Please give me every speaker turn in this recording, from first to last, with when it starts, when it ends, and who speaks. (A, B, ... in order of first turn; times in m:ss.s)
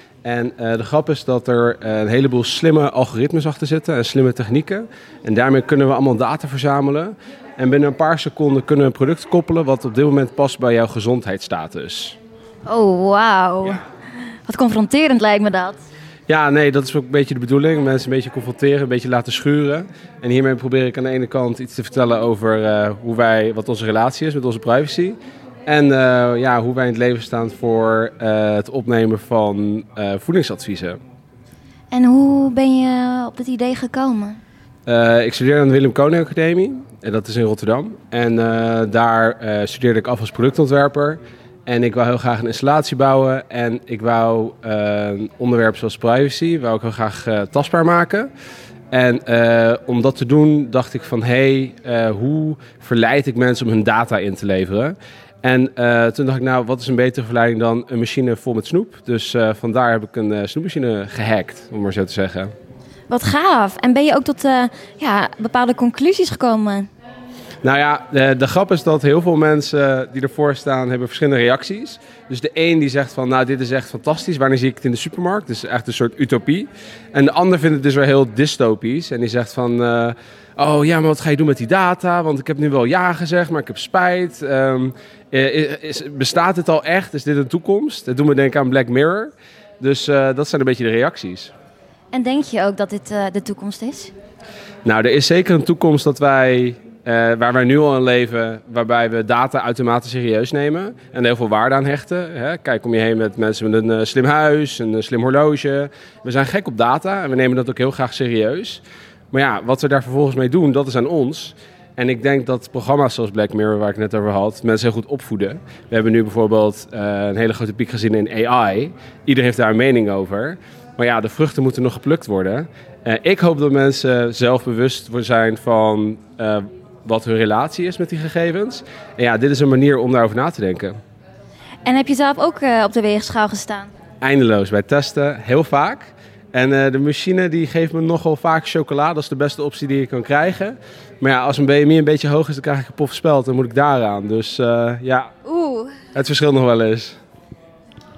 0:00.2-0:12.2 A
0:12.7-0:13.8 B
0:14.5-0:15.8 B
0:16.3-0:31.0 A
0:31.9-0:34.4 B
0:34.8-0:48.3 A
0:48.9-1:02.5 A
1:03.1-1:06.9 B
1:07.6-1:31.5 A
1:32.1-1:34.1 B
1:34.8-2:11.0 A
2:11.8-2:13.9 B
2:14.2-2:25.3 A
2:25.4-2:26.0 B
2:26.1-2:27.2 A